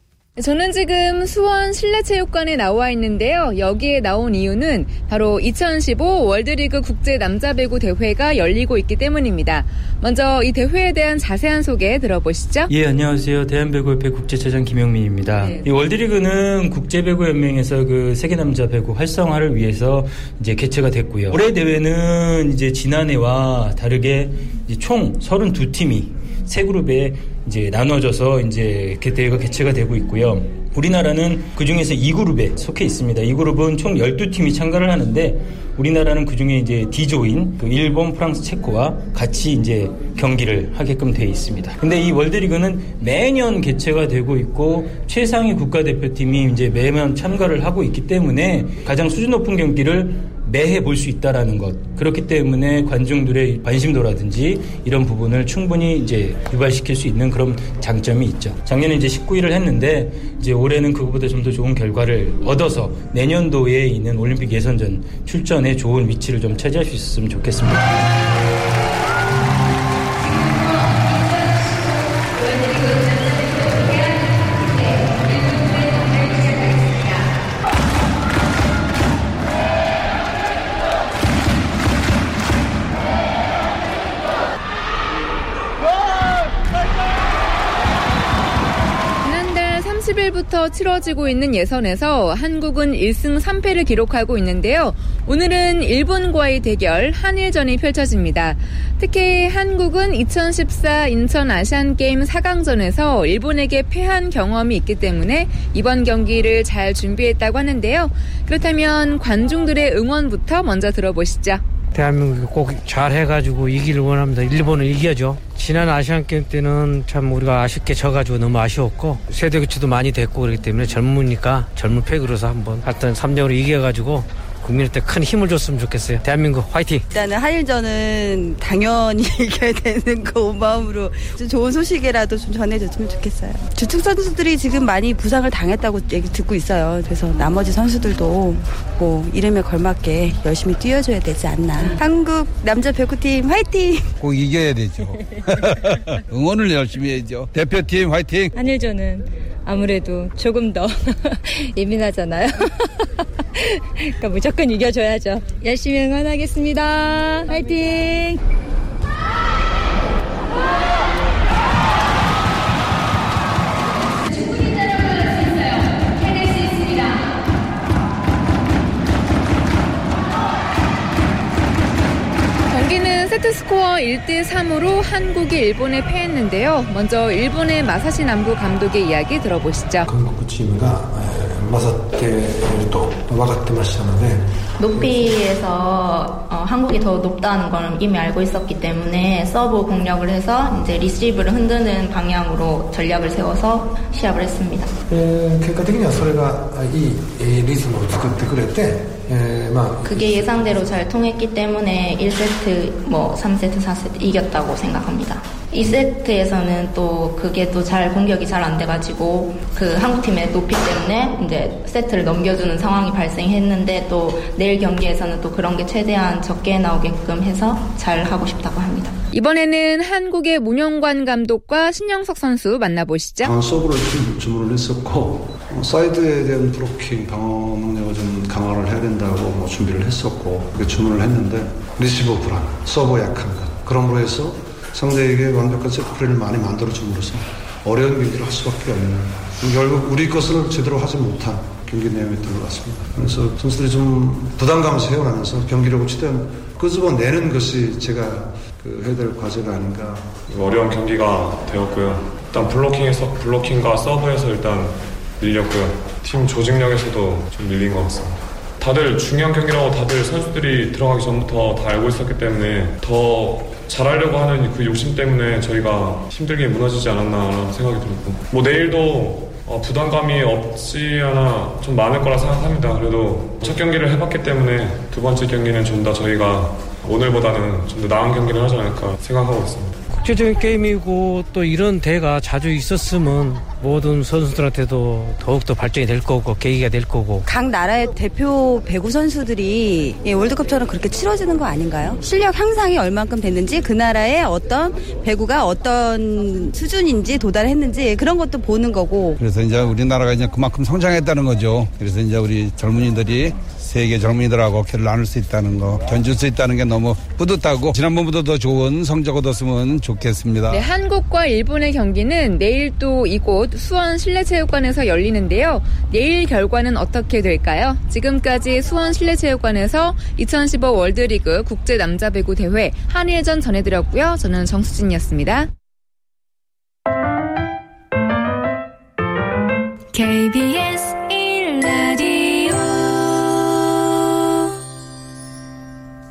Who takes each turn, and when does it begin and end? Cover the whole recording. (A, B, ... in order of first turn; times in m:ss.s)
0:00.4-0:12.7 A
0:12.7-1:08.0 B
0:15.4-0:15.6 A
1:10.2-1:17.3 A
1:29.2-1:51.6 A
1:51.9-2:07.0 C
2:07.1-2:24.1 D
2:24.2-2:28.5 E
2:28.5-2:32.9 F
2:33.6-2:38.4 F
2:44.2-2:47.2 A
2:52.7-3:00.1 A
3:00.1-3:05.3 G
3:04.8-3:14.9 H
3:15.1-3:21.0 G
3:20.0-3:39.2 H
3:39.3-3:43.5 A
3:43.4-4:10.4 I
4:10.5-4:40.0 J
4:40.1-4:47.4 C
4:47.4-4:59.4 D
4:59.4-5:10.8 E
5:10.7-5:25.7 A
5:30.1-5:33.1 A